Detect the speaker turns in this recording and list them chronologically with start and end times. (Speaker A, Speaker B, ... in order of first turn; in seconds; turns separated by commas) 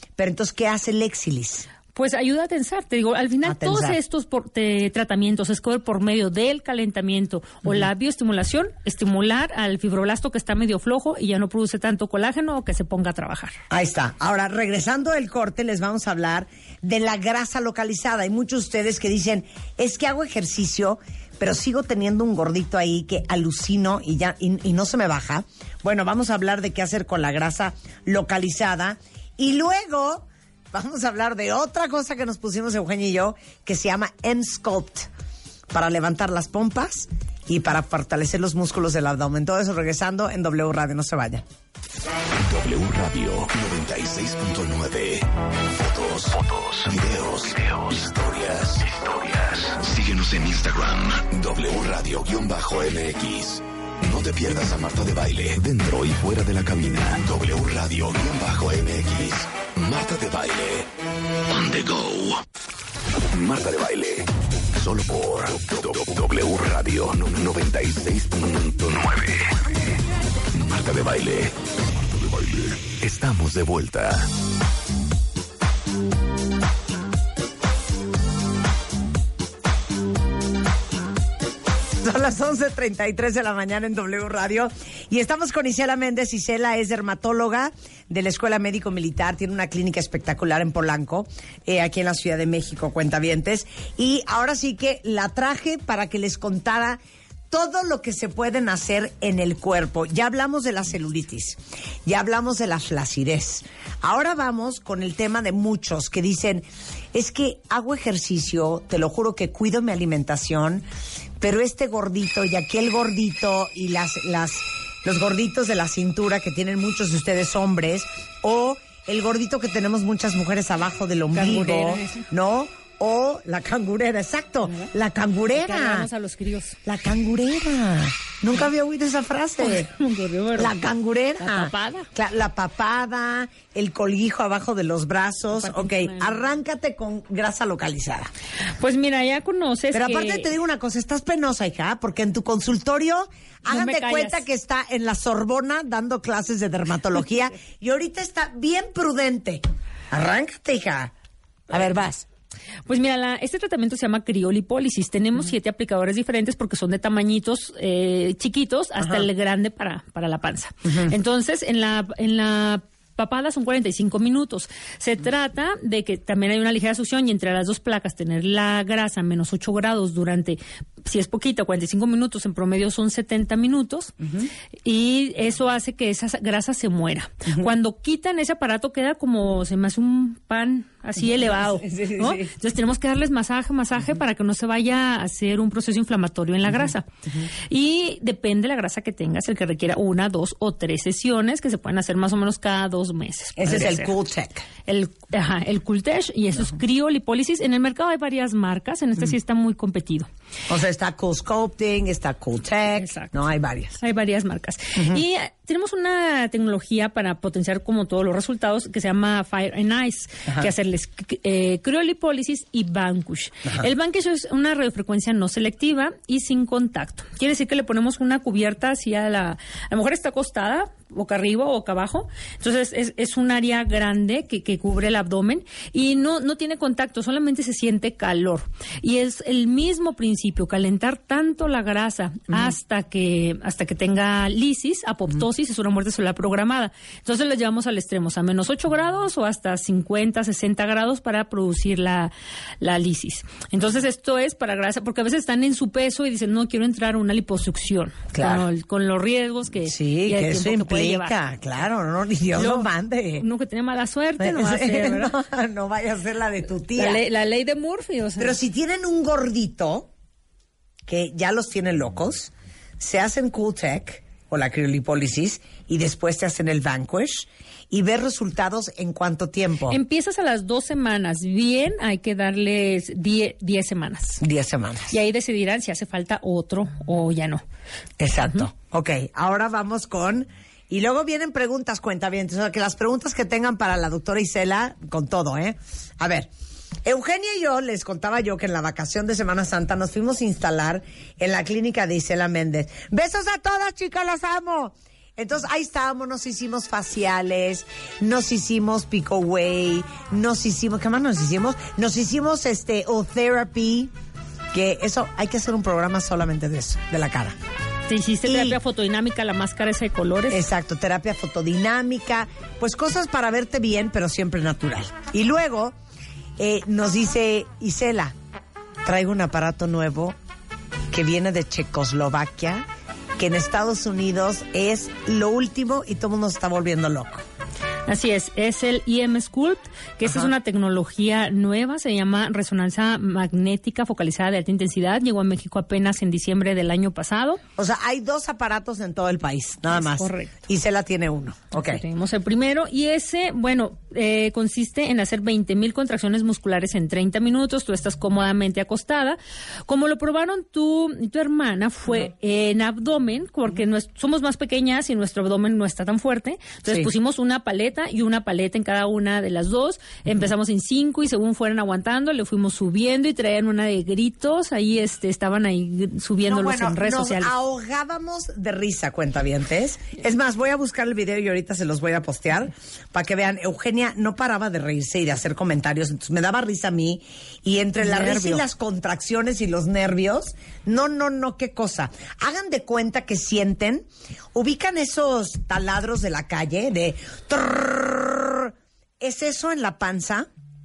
Speaker A: 0.2-1.7, Speaker B: 1.9-13.6, Speaker A: 3.5-4.0, Speaker A: 13.7-35.1, Speaker A: 35.7-41.4, Speaker C: 42.3-60.9, Speaker C: 61.5-62.4, Speaker C: 63.2-69.7, Speaker C: 70.5-74.3, Speaker A: 82.0-110.8, Speaker A: 111.4-126.1, Speaker B: 121.3-122.2, Speaker B: 125.5-126.8, Speaker A: 126.8-129.9, Speaker B: 129.6-130.8, Speaker A: 130.6-138.3, Speaker B: 131.4-132.1, Speaker B: 135.5-136.4, Speaker B: 138.8-140.5, Speaker A: 139.9-151.1, Speaker B: 143.7-144.4, Speaker A: 151.7-152.3, Speaker B: 152.9-174.1, Speaker A: 159.0-159.2, Speaker A: 160.9-161.1, Speaker A: 174.2-174.5, Speaker B: 174.8-187.1, Speaker A: 181.2-182.5, Speaker B: 187.7-194.1, Speaker A: 193.6-194.7, Speaker B: 194.8-200.3, Speaker A: 200.7-204.0, Speaker B: 202.9-203.4, Speaker B: 204.0-251.3, Speaker A: 205.0-205.2, Speaker A: 248.3-248.7, Speaker A: 249.9-253.4, Speaker B: 252.5-255.3, Speaker A: 254.4-257.2, Speaker B: 257.0-258.6, Speaker A: 258.4-260.1, Speaker A: 261.1-270.0, Speaker B: 269.9-274.4, Speaker A: 274.4-275.1, Speaker B: 275.1-277.6, Speaker A: 278.2-286.5, Speaker A: 287.1-304.1, Speaker A: 304.7-307.6, Speaker B: 308.1-310.6, Speaker A: 308.4-308.8, Speaker A: 310.5-316.0, Speaker A: 316.6-318.4, Speaker A: 319.1-320.4, Speaker A: 321.1-322.9, Speaker A: 323.4-327.4, Speaker B: 328.1-337.6, Speaker A: 337.8-342.0, Speaker B: 339.9-340.5, Speaker B: 341.8-367.5, Speaker A: 366.5-390.5, Speaker B: 378.0-378.6